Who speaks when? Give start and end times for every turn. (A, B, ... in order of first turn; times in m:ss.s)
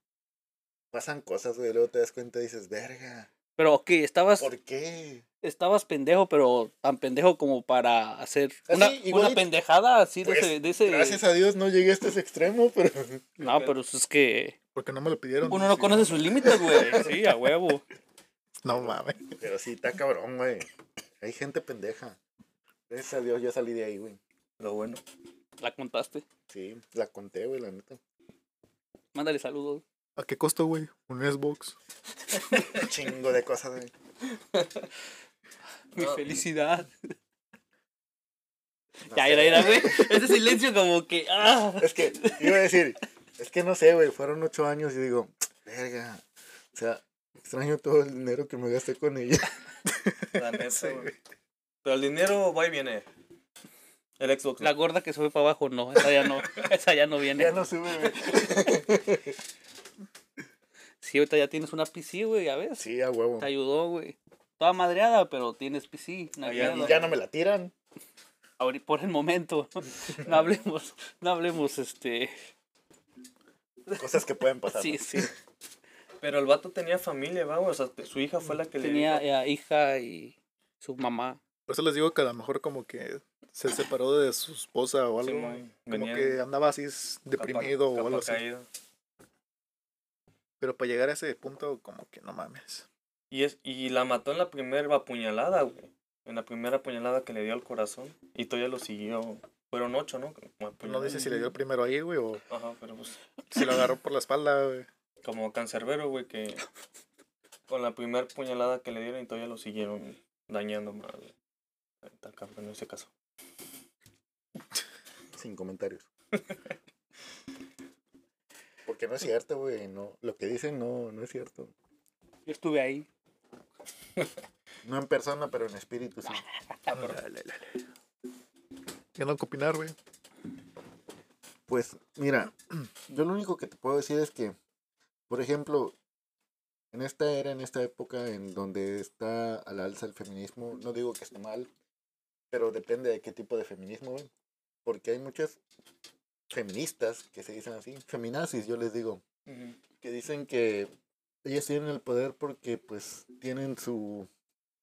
0:00.9-0:03.3 A
0:03.6-0:04.5 B
0:04.4-0:05.2 A
0:05.4-0:11.2 B
0:08.7-0:09.5 A
0:10.2-0:13.4 A
0:13.4-0:14.6 B
0:13.4-0:13.7 C
0:14.7-0:16.3 D
0:15.4-0:17.8 B
0:18.6-0:19.2 D
0:18.7-0:20.7 A
0:21.2-0:22.2 A
0:22.9-0:24.2 A
0:24.6-0:25.0 C
0:25.6-0:26.2 B
0:26.5-0:28.0 A
0:29.1-0:29.8 B
0:30.2-0:31.8 D
0:32.7-0:33.9 A
0:34.5-0:34.8 C
0:35.9-0:36.3 C
0:35.9-0:36.9 B
0:39.1-0:40.2 A
0:39.1-0:42.6 B
0:41.8-0:46.2 A
0:46.7-0:49.6 A
0:50.3-0:51.1 C
0:50.7-0:51.1 D
0:51.8-0:53.0 C
0:54.2-0:54.7 C
0:54.6-0:57.6 B
0:57.3-0:59.3 A
0:58.2-0:58.4 B
1:01.0-1:02.8 B
1:02.8-1:03.5 A
1:03.4-1:07.1 B
1:06.4-1:07.1 C
1:06.6-1:07.7 A
1:08.6-1:12.3 B
1:10.2-1:10.6 C
1:14.0-1:15.3 A
1:14.7-1:15.3 B
1:16.2-1:19.2 C
1:18.8-1:21.4 B
1:21.7-1:28.4 D
1:25.2-1:26.4 C
1:27.4-1:28.6 C
1:30.6-1:32.9 D
1:33.3-1:41.5 C
1:40.8-1:42.4 D
1:42.5-1:43.2 C
1:43.5-1:44.9 D
1:45.2-1:46.6 C
1:47.7-1:51.3 C
1:52.0-1:53.1 C
1:55.4-1:56.1 A
1:58.8-2:01.7 A
2:02.4-2:03.1 B
2:04.8-2:06.4 A
2:06.7-2:07.2 B
2:06.9-2:07.8 D
2:09.2-2:09.9 D
2:11.7-2:14.6 A
2:15.3-2:16.0 A
2:16.9-2:21.7 A
2:22.5-2:24.3 A
2:24.8-2:25.6 A
2:26.5-2:29.2 A
2:29.5-2:29.8 C
2:30.0-2:30.9 A
2:31.4-2:34.3 A